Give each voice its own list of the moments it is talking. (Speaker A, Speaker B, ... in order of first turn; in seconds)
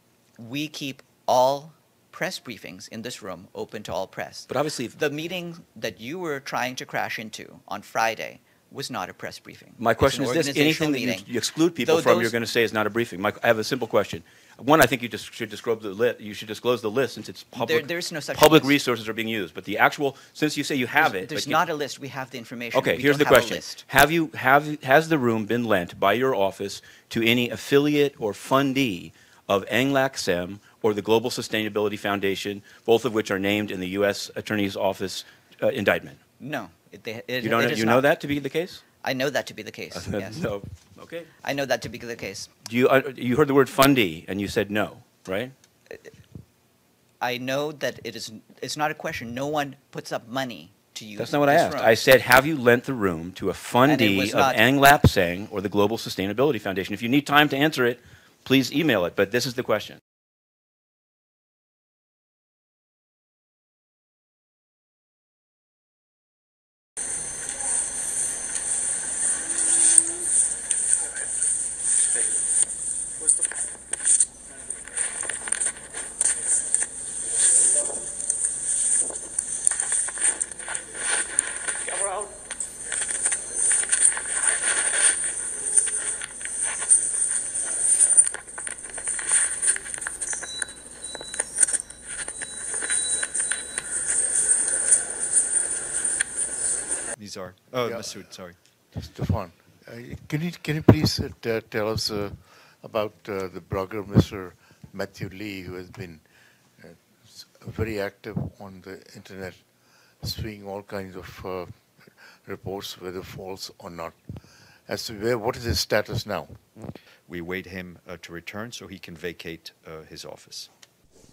Speaker A: 0.4-11.3, 11.8-12.3, 17.5-18.8, 21.0-23.8, 36.4-38.1, 39.0-40.5, 41.4-42.5, 47.2-51.9, 53.8-54.6
Speaker B: 4.5-5.0, 9.8-21.6, 22.7-36.2, 37.4-38.8, 39.9-41.3, 42.6-45.5, 51.2-60.0
Speaker C: 97.1-98.6, 117.2-120.7
Speaker D: 97.8-116.7